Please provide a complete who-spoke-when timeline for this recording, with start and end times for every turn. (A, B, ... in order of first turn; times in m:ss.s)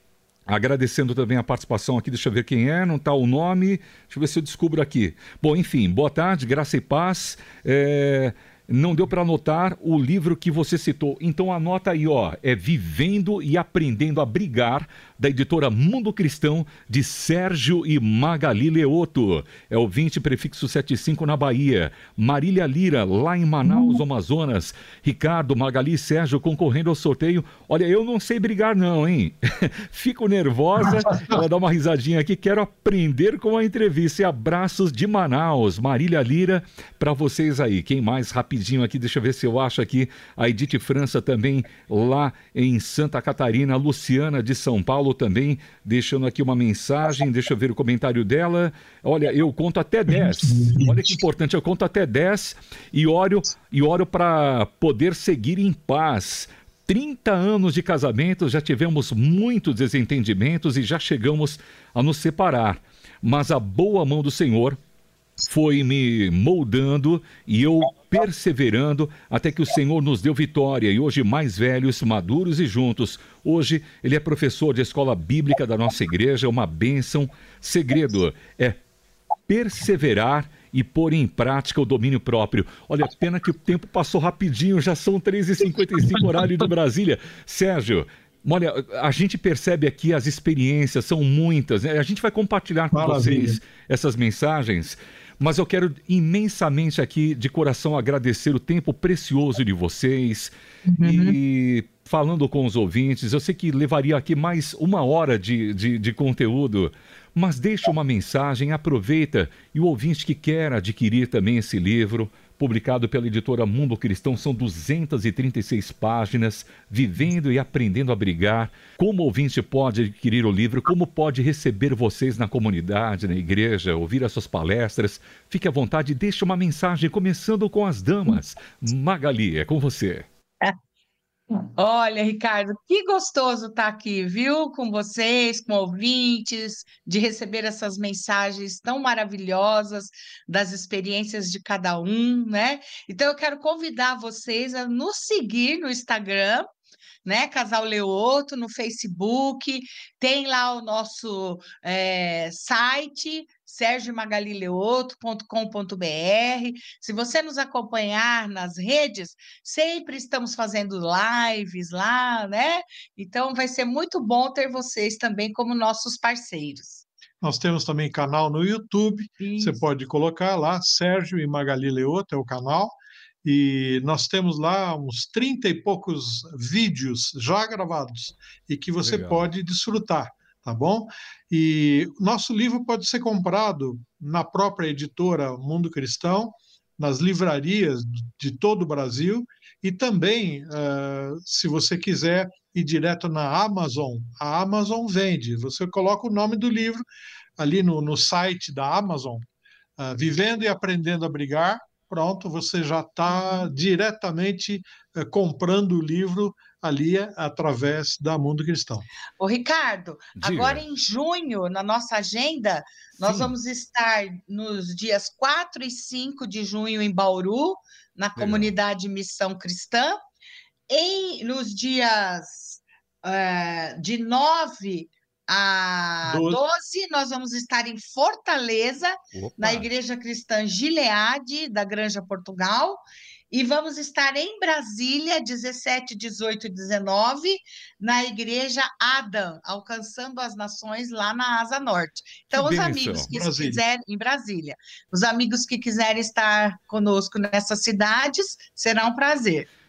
0:00.5-1:04.8 A
0:23.7-0:24.0 B
0:50.4-0:50.9 C
1:05.4-1:18.8 A
1:19.5-2:10.3 A
1:32.9-1:33.6 C
1:40.9-1:41.4 B
2:11.5-2:26.7 B
2:27.2-2:47.1 B
2:47.4-3:17.0 C
2:49.4-2:49.8 B
2:59.0-2:59.5 A
3:17.6-3:19.4 C
3:20.0-3:29.1 C
3:23.3-3:23.7 B
3:29.4-3:40.2 B
3:30.4-3:30.8 A
3:33.2-3:33.5 A
3:38.4-3:38.7 A
3:40.9-4:09.7 B
3:46.2-3:46.6 C
3:49.3-3:49.9 A
4:02.5-4:03.3 A
4:03.3-4:03.8 C